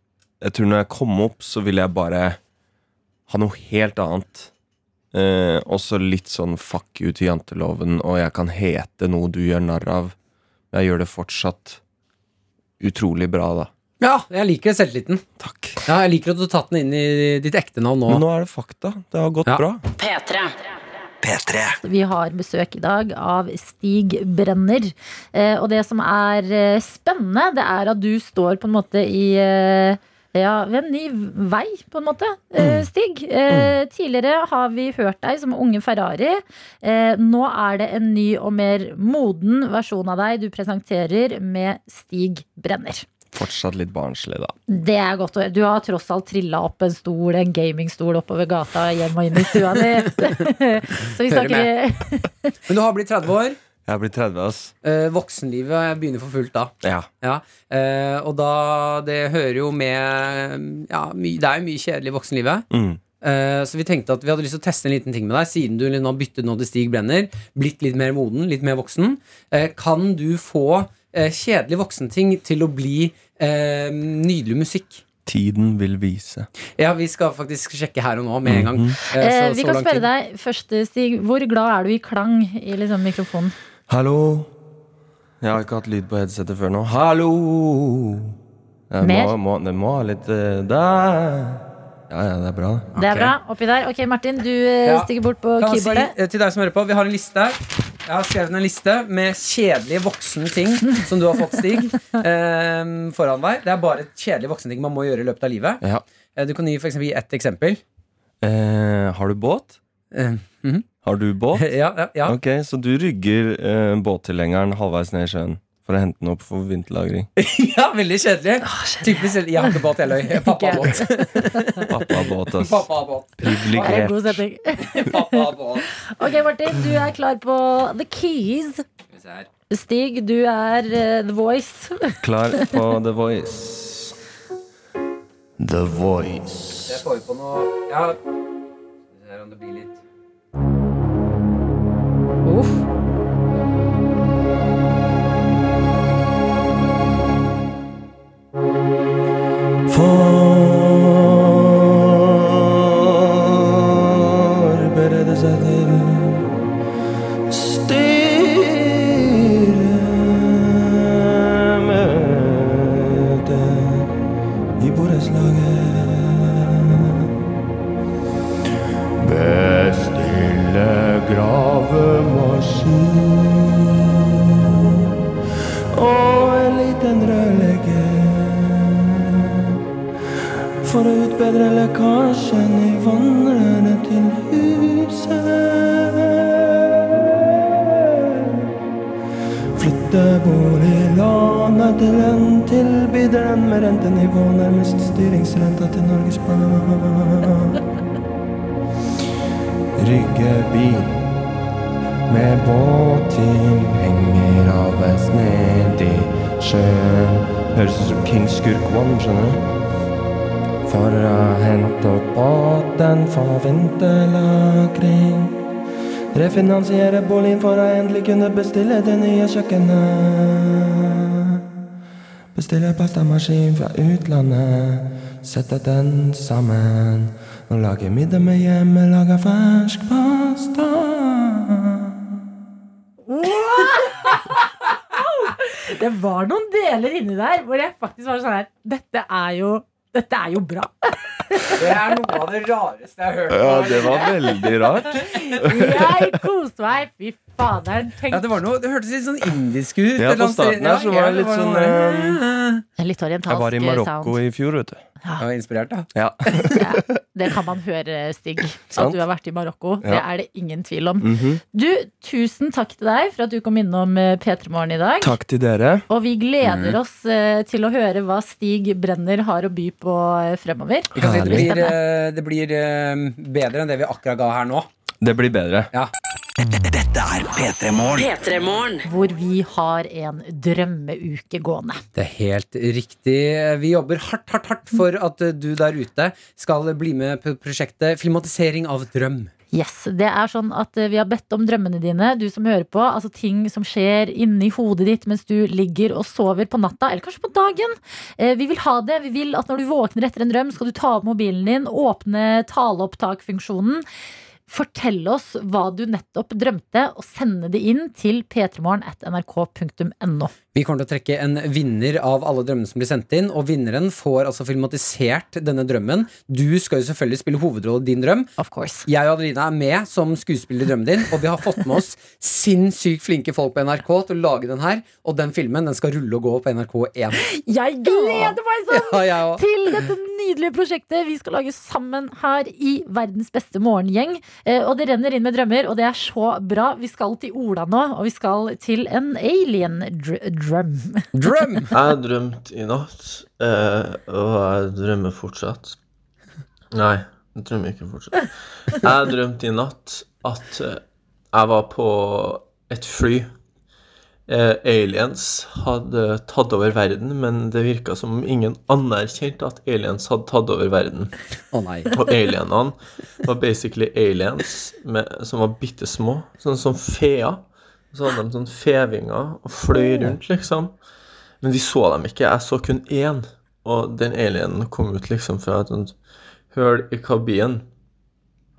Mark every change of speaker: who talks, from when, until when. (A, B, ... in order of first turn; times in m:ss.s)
0:00.4-0:02.4 A
0:03.3-0:04.5 A
0:05.1-0:10.1 A
0:10.7-0:11.8 A
0:12.8-0:13.7 A
0:14.0-0:15.2 B
0:15.4-0:15.8 A
0:15.8-0:18.2 B
0:18.1-0:19.8 A
0:20.0-0:20.5 C
0:21.2-0:21.8 C
0:21.8-0:43.1 D
0:32.6-0:32.9 A
0:33.5-0:33.7 A
0:43.3-0:44.5 A
0:44.7-0:52.5 D
0:51.2-0:51.7 B
0:52.7-0:53.6 B
0:53.8-0:54.7 A
0:54.8-1:02.6 B
0:56.8-0:57.1 A
1:02.7-1:03.0 A
1:03.2-1:15.0 B
1:15.2-1:16.5 A
1:16.7-1:20.1 B
1:18.4-1:19.0 A
1:19.1-1:23.5 D
1:23.9-1:24.5 A
1:25.4-1:28.3 A
1:28.9-1:33.0 A
1:29.0-1:29.4 D
1:32.9-1:33.3 B
1:33.0-1:36.1 D
1:34.8-1:45.8 B
1:46.4-1:47.8 B
1:48.4-1:49.8 A
1:50.1-1:50.8 B
1:51.0-1:57.3 A
1:51.6-1:52.4 B
1:57.4-2:04.0 B
1:58.6-2:01.9 D
2:01.9-2:02.9 A
2:03.4-2:04.4 A
2:03.8-2:08.8 D
2:04.8-2:05.9 B
2:09.1-2:09.5 B
2:09.7-2:12.8 D
2:12.2-2:14.2 A
2:15.6-2:17.0 A
2:16.8-2:18.2 B
2:19.1-2:20.0 B
2:22.4-2:22.8 D
2:29.9-2:36.5 A
2:37.5-2:44.1 A
2:44.8-2:47.3 A
2:49.2-2:54.6 A
2:55.9-2:59.7 A
3:00.8-3:08.7 A
3:09.8-3:17.8 A
3:20.0-3:21.2 A
3:22.3-3:29.6 A
3:30.8-3:35.6 A
3:36.3-3:41.6 A
3:42.5-3:52.1 A
3:53.3-4:02.1 D
4:01.7-4:05.9 B
4:03.5-4:06.4 A
4:05.6-4:08.5 D
4:08.3-4:12.8 B
4:10.2-4:12.4 A
4:13.0-4:14.4 D
4:13.5-4:15.0 A
4:15.4-4:16.8 B
4:16.1-4:17.0 A
4:16.8-4:25.4 D
4:18.9-4:19.2 A
4:21.2-4:21.6 A
4:25.2-4:26.0 A
4:26.1-4:32.0 D
4:26.6-4:27.0 B
4:31.1-4:34.9 B
4:31.2-4:31.8 A
4:35.2-4:35.9 A
4:36.6-4:38.9 C
4:39.0-4:42.0 D
4:42.1-4:49.5 B
4:49.7-5:04.0 D
5:04.7-5:10.5 D
5:10.7-5:18.5 B
5:18.6-5:19.1 D
5:19.0-5:27.4 B
5:27.4-5:41.3 D
5:28.0-5:29.9 B
5:41.3-5:41.9 B
5:41.9-5:46.0 E
5:46.9-5:53.5 E
5:54.5-6:01.4 E
6:01.7-6:02.1 B
6:02.1-6:11.0 E
6:11.6-6:16.2 E
6:16.7-6:17.9 E